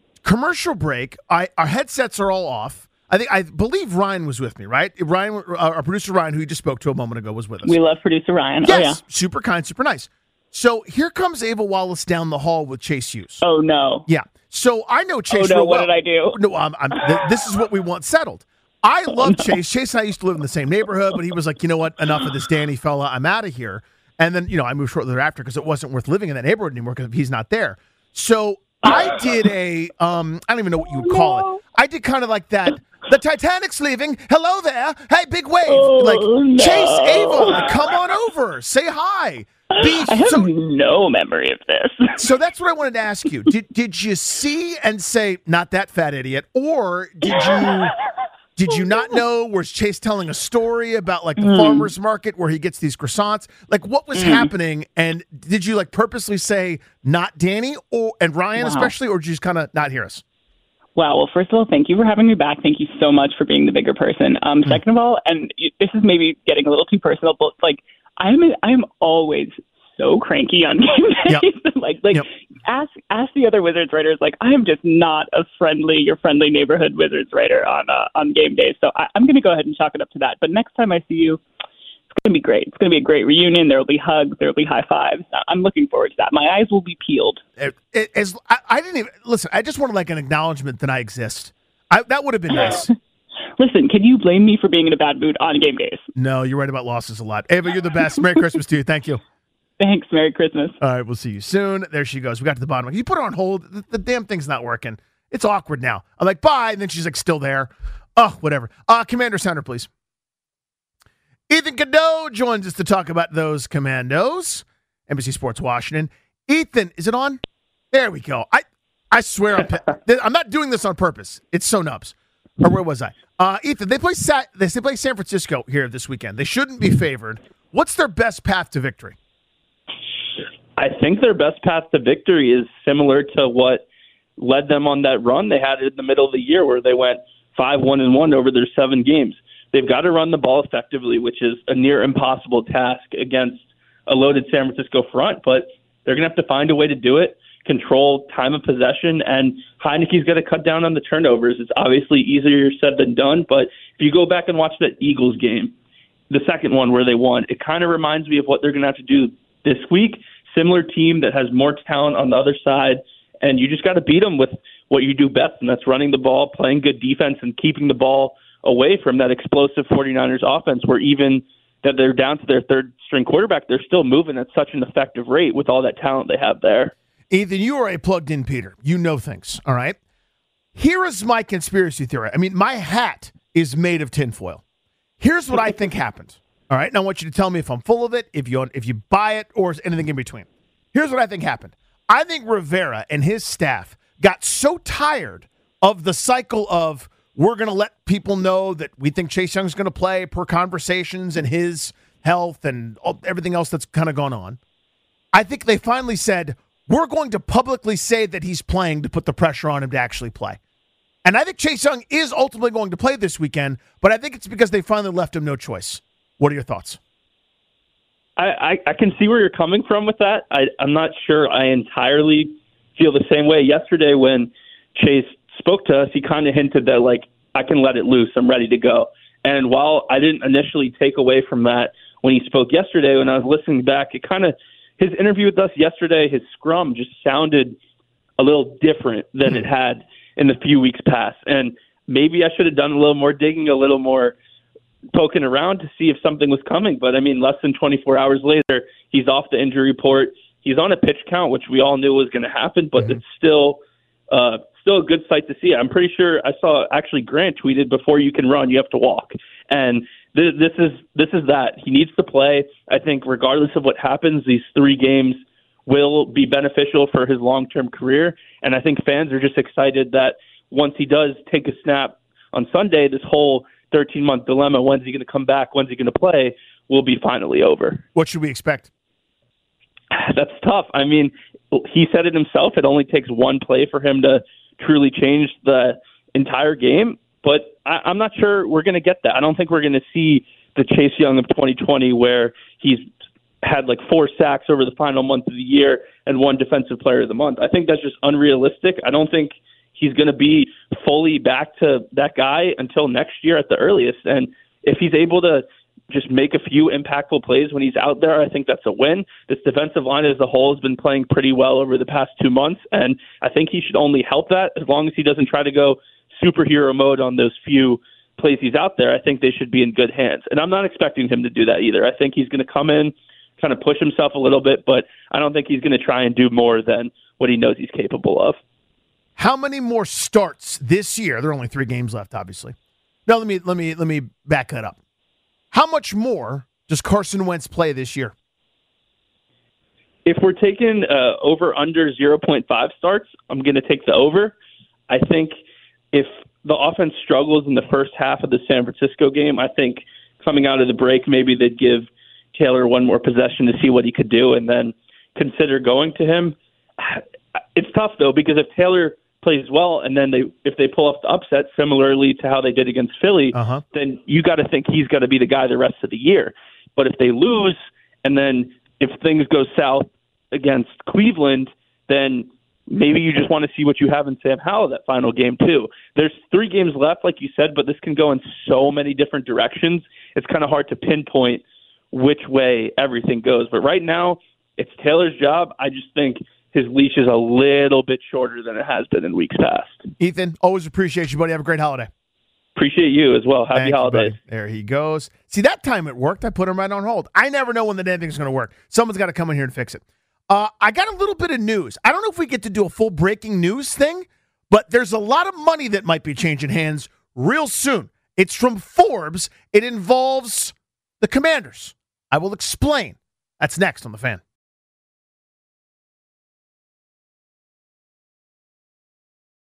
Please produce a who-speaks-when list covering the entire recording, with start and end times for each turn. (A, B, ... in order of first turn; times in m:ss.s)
0:00.2-0:07.8 A
0:07.6-0:09.0 B
0:08.6-0:13.4 A
0:13.4-0:14.1 B
0:14.1-0:40.5 A
0:15.3-0:16.4 B
0:16.9-0:17.2 B
0:19.2-0:19.5 B
0:31.0-0:31.6 B
0:35.7-0:37.8 B
0:39.7-0:42.2 B
0:42.2-0:47.9 A
0:47.3-0:47.8 B
0:48.6-1:00.2 A
0:51.4-0:51.9 B
0:54.1-0:54.5 B
0:58.6-0:58.9 B
1:01.0-1:21.4 B
1:22.2-1:27.4 B
1:27.6-1:32.9 A
1:32.5-1:32.9 B
1:33.6-1:36.0 B
1:36.1-1:39.2 A
1:39.8-1:40.8 B
1:40.8-1:49.9 A
1:51.5-1:57.4 A
1:57.9-2:09.2 A
2:10.8-2:13.8 C
2:14.4-2:35.7 C
2:36.3-2:56.9 C
2:57.3-3:00.0 A
3:00.7-3:04.6 A
3:05.2-3:24.6 A
3:25.3-3:30.6 A
3:31.2-3:37.0 A
3:38.4-3:57.8 C
3:58.4-4:04.3 C
4:05.1-4:13.8 C
4:14.3-4:38.0 C
4:38.1-4:38.9 A
4:40.1-4:53.0 C
4:53.6-5:28.6 C
5:29.4-5:32.7 A
5:33.3-5:35.0 A
5:35.7-5:38.3 A
5:40.2-5:44.6 C
5:45.1-5:45.5 C
5:46.1-5:57.2 C
5:57.7-6:30.0 C
6:03.5-6:03.8 A
6:30.2-6:32.1 A
6:32.8-6:34.3 C
6:33.7-6:54.4 A